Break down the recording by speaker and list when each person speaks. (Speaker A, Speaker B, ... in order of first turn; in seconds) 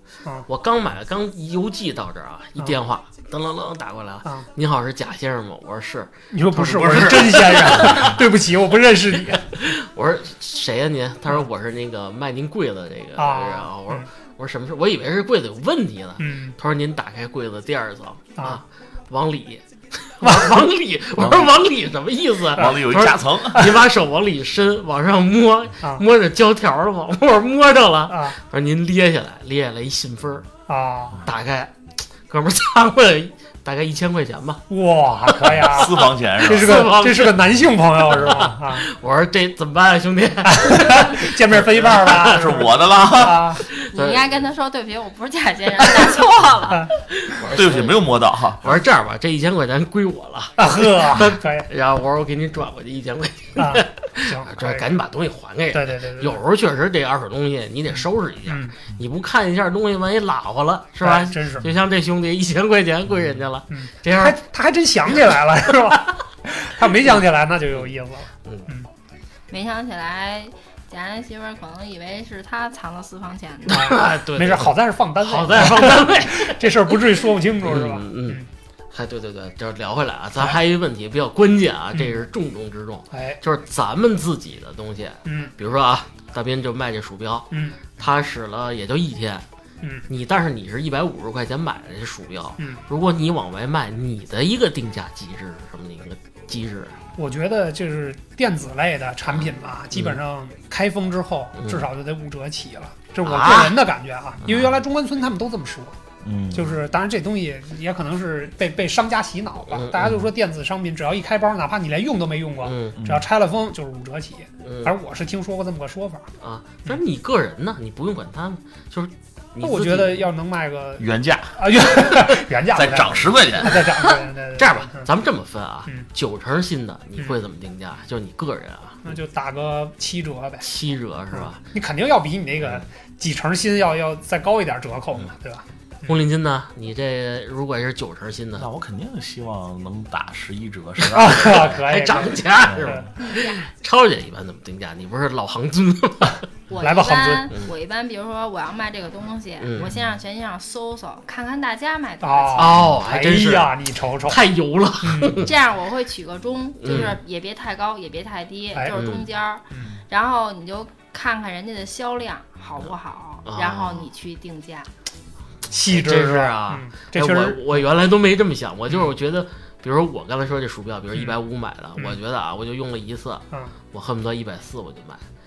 Speaker A: 0.5-8.2, 9.5-30.5, 31.2-31.7, 32.3-34.6, 35.4-35.6, 36.4-37.5, 38.1-42.5, 43.6-44.3, 47.1-48.1, 48.6-64.4, 73.7-77.0, 77.6-89.4, 90.1-97.0, 99.3-100.2, 101.6-101.9, 103.2-103.8, 109.7-110.2, 112.6-113.0, 114.6-114.9, 116.4-120.3, 124.0-129.0, 130.6-131.6, 136.1-138.7, 141.0-146.4, 149.6-149.9, 152.6-155.5, 156.8-157.2, 158.9-159.2, 163.4-164.0, 165.8-175.2
Speaker B: 6.3-9.6, 13.2-14.1, 16.2-16.6, 20.2-20.6, 22.6-22.8, 28.1-28.4, 30.7-31.2, 34.7-38.9, 40.4-43.6, 50.6-51.7, 53.6-54.9, 55.7-56.4, 58.5-58.7, 61.0-61.7, 63.7-68.9, 73.7-78.5, 81.9-82.2, 83.1-83.4, 85.2-85.5, 87.5-87.8, 97.2-105.9, 106.5-116.3, 119.6-125.1, 129.0-130.7, 131.3-136.2, 141.1-143.1, 146.8-147.5, 152.2-154.4, 155.0-155.4, 165.7-167.8
Speaker C: 21.2-21.5, 22.5-23.7, 35.6-36.9, 41.8-43.6, 47.4-48.7, 106.2-106.8, 113.0-113.2, 121.0-121.6, 122.7-123.9, 138.6-141.8, 142.6-143.0
Speaker D: 43.9-46.9, 69.5-73.9, 143.2-143.6, 146.7-152.7, 155.4-164.9